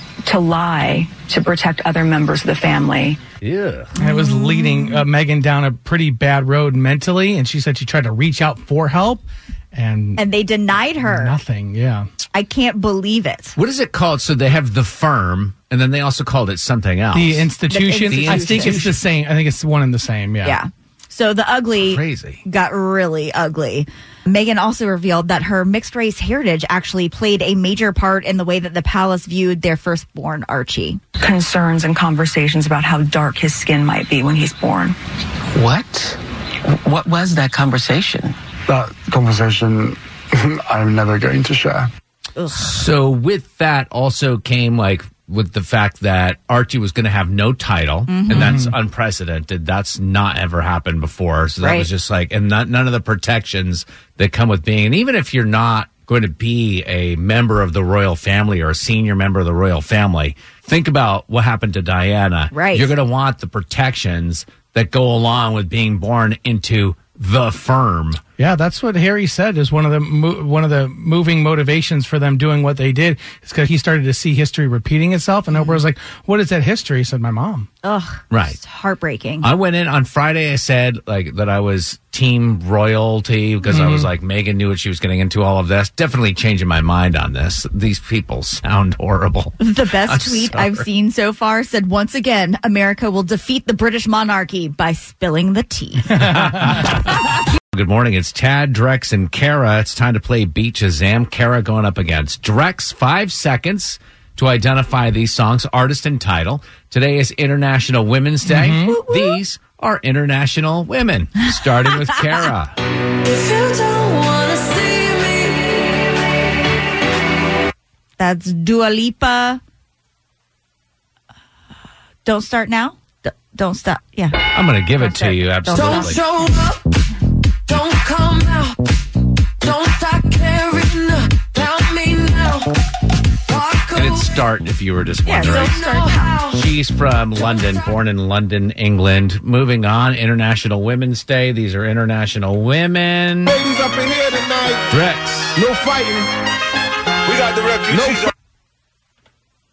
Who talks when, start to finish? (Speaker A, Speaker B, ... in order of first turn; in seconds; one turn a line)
Speaker A: 0.2-3.2
Speaker B: 3.4-3.9
Speaker C: 4.0-5.0
Speaker D: 4.0-10.2
Speaker C: 10.2-11.4
Speaker D: 11.0-12.1
Speaker C: 12.3-13.6
Speaker B: 13.6-17.5
Speaker D: 17.1-20.6
Speaker C: 17.7-18.9
Speaker B: 18.1-19.0
Speaker C: 20.4-31.0
Speaker B: 21.7-22.4
Speaker A: 31.2-35.0
Speaker E: 35.5-38.4
Speaker F: 38.7-41.9
Speaker C: 42.4-42.8
Speaker B: 42.5-68.2
Speaker C: 48.1-48.6
Speaker D: 48.3-48.7
Speaker C: 51.6-51.9
Speaker C: 62.5-62.9
Speaker D: 68.4-77.7
Speaker C: 77.8-79.5
Speaker B: 78.3-78.6
Speaker B: 79.4-90.9
Speaker D: 83.7-84.1
Speaker C: 89.6-96.4
Speaker B: 96.2-112.8
Speaker D: 108.5-109.0
Speaker G: 113.3-116.0
Speaker C: 118.2-119.6
Speaker C: 122.2-124.4
Speaker B: 124.5-126.2
Speaker C: 125.0-126.2
Speaker G: 125.7-126.9
Speaker G: 127.7-128.8
Speaker G: 129.6-132.8
Speaker G: 133.5-134.4
Speaker B: 133.9-135.8
Speaker C: 135.2-136.4
Speaker G: 135.4-136.7
Speaker B: 136.5-143.6
Speaker G: 137.4-137.6
Speaker H: 143.5-144.9
Speaker B: 144.9-145.6
Speaker H: 145.6-146.3
Speaker H: 147.3-148.3